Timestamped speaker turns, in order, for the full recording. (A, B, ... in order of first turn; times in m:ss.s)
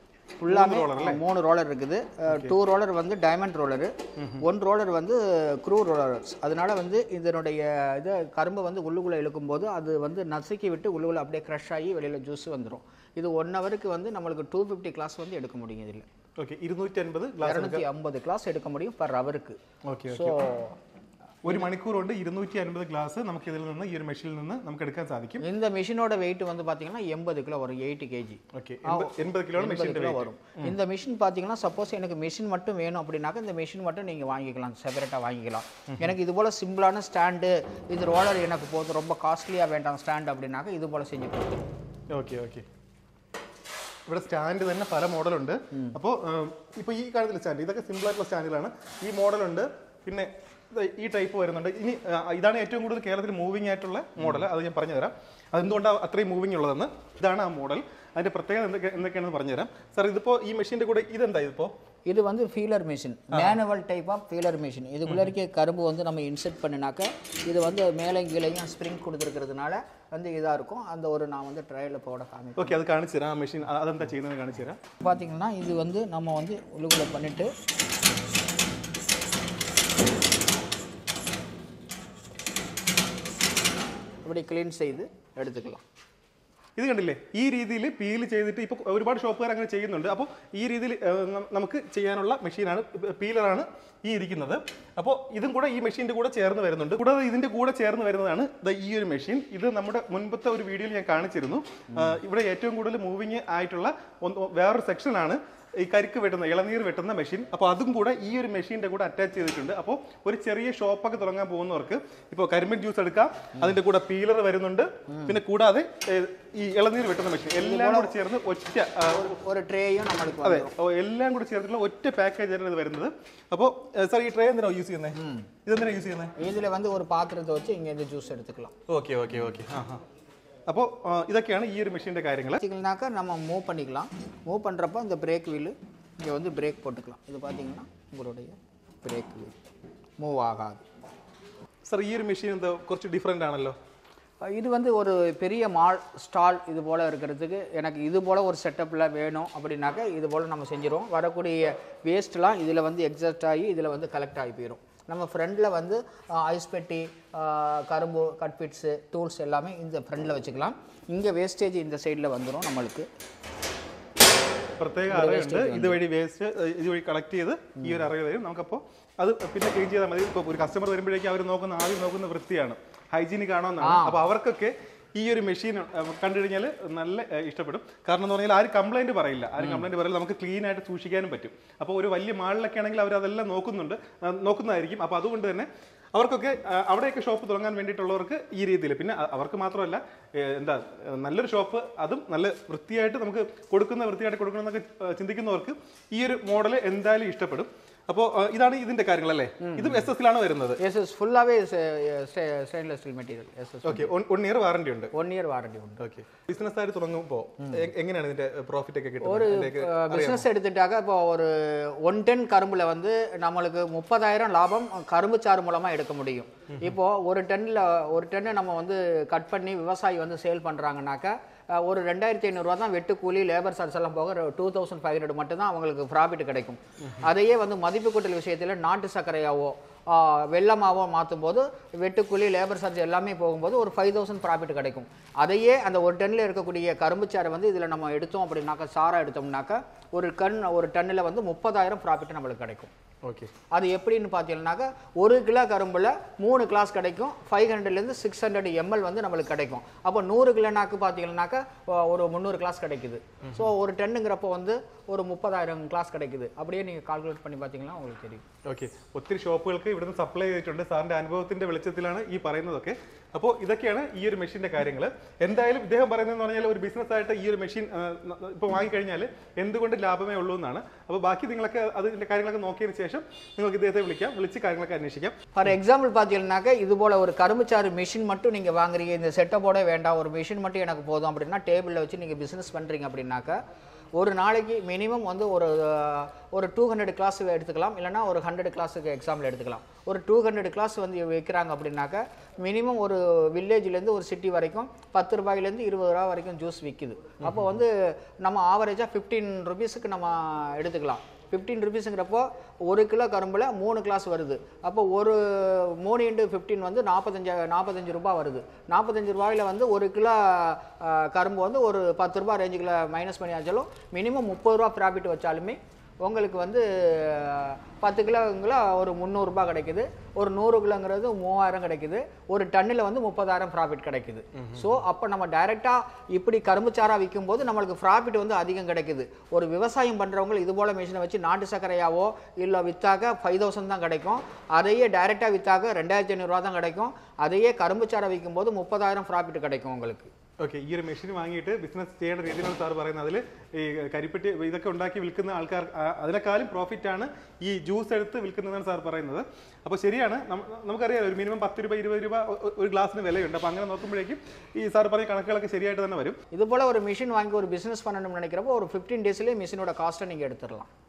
0:00.4-0:16.0 A
0:00.4-0:01.2 B
0:02.3-0:02.5 B
0:04.2-0:04.4 B
0:16.4-0:17.8 B
0:17.4-0:19.6 A
0:19.8-0:20.4 B
0:20.1-0:20.8 A
0:21.4-0:25.4 B
0:25.4-0:41.6 A
0:28.5-0:30.7 B
0:42.1-0:42.6 B
0:44.1-1:01.7 B
1:02.1-1:12.8 A
1:03.3-1:03.6 B
1:12.6-1:14.8 B
1:15.0-1:17.5 A
1:24.2-1:25.8 A
1:26.8-1:59.3 B
1:41.9-1:42.2 A
1:57.6-1:58.2 A
1:59.1-2:00.7 A
2:00.4-2:06.3 B
2:05.2-2:05.5 A
2:06.4-2:08.7 A
2:08.9-2:10.0 B
2:10.7-2:12.6 B
2:12.6-2:19.6 A
2:20.2-2:20.8 A
2:21.8-2:23.8 B
2:24.4-2:43.1 A
2:44.8-3:20.8 B
2:45.1-2:46.0 A
2:47.8-2:48.1 A
2:53.8-2:54.2 A
2:59.6-2:59.8 A
3:19.6-3:20.1 A
3:20.8-3:24.1 A
3:23.8-3:25.1 B
3:25.1-3:26.0 A
3:26.0-3:30.5 B
3:29.2-4:02.9 A
4:03.2-4:03.5 B
4:03.7-4:18.4 A
4:13.4-4:13.7 B
4:18.6-4:35.4 B
4:35.5-4:43.6 A
4:44.2-5:40.3 A
4:57.4-4:57.8 B
5:24.5-5:24.9 B
5:40.6-5:56.4 B
5:56.5-6:00.9 A